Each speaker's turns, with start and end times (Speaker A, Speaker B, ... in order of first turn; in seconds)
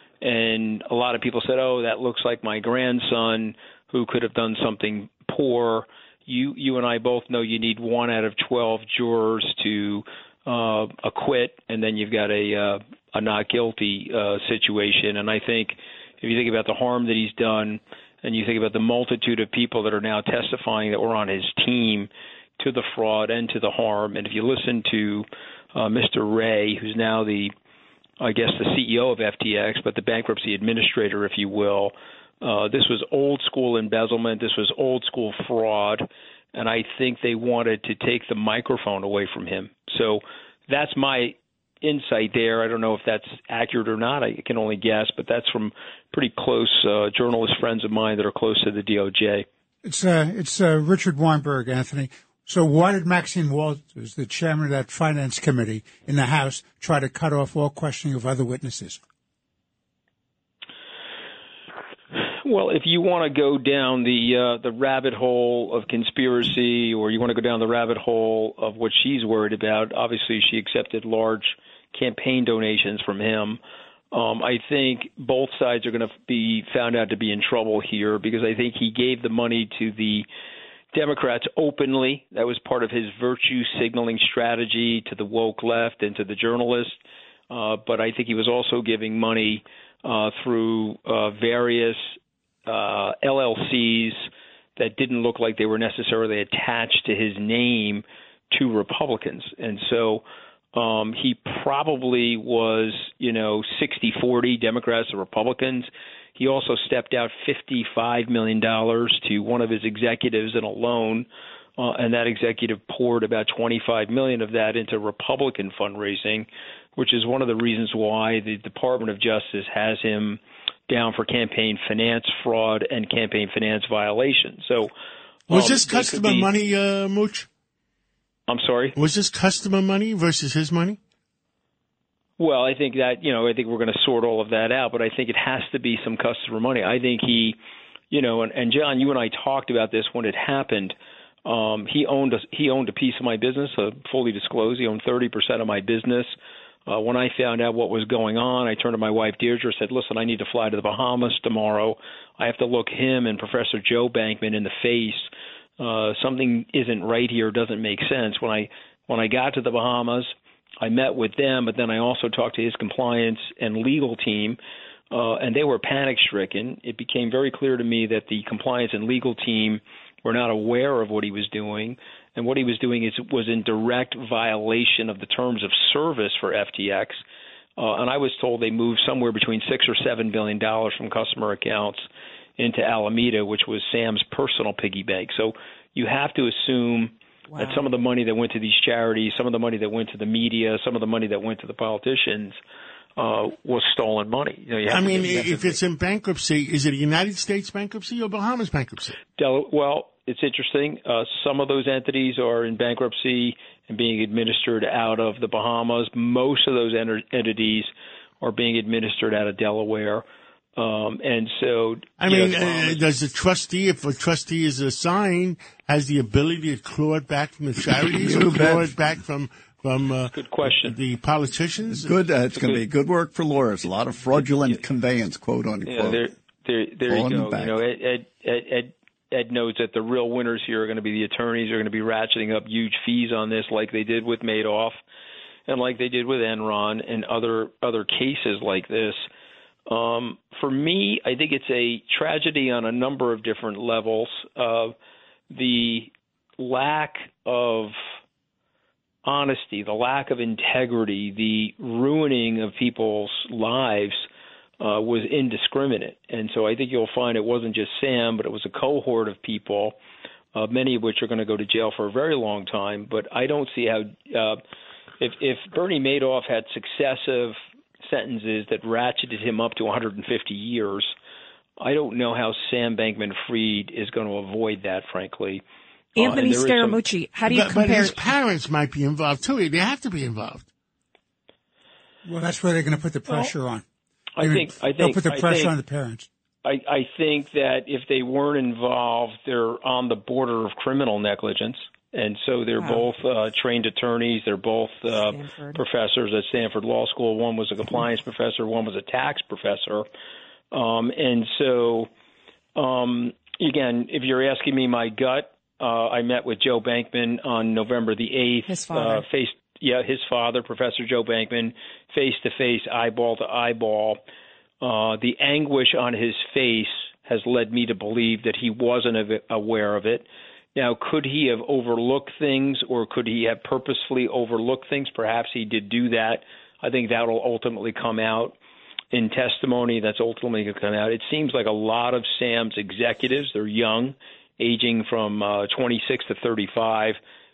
Speaker A: 0.2-27.5, 28.2-49.5, 62.4-73.6, 74.1-80.2, 80.9-87.0, 87.5-94.2, 94.8-100.2, 100.7-111.3, 111.8-124.9, 125.5-126.5, 128.5-128.9, 132.4-137.6, 138.1-146.3, 146.9-164.6, 165.1-177.2, 177.8-182.0, 182.6-192.6, 193.2-195.8, 199.4-207.9, 208.4-210.2, 210.8-213.0, 220.3-221.0, 222.5-222.8, 225.8-235.0, 235.7-239.2, 239.9-244.9, 245.5-248.0, 249.2-254.2, 254.8-260.0, 260.5-264.6, 265.2-271.1, 271.8-275.6, 276.1-277.0, 284.4-285.7, 286.6-300.1, 300.7-302.1, 302.8-314.2, 314.8-328.6, 329.1-337.2
Speaker B: 49.8-59.0, 282.2-283.8, 284.4-286.3
Speaker C: 125.5-127.5, 128.9-131.0, 194.9-199.2, 212.2-222.1, 277.5-280.7
Speaker D: 187.5-187.9, 276.1-278.2, 292.8-293.0, 295.3-295.8, 308.7-309.2
Speaker E: 218.1-218.9, 221.9-226.2, 227.1-227.8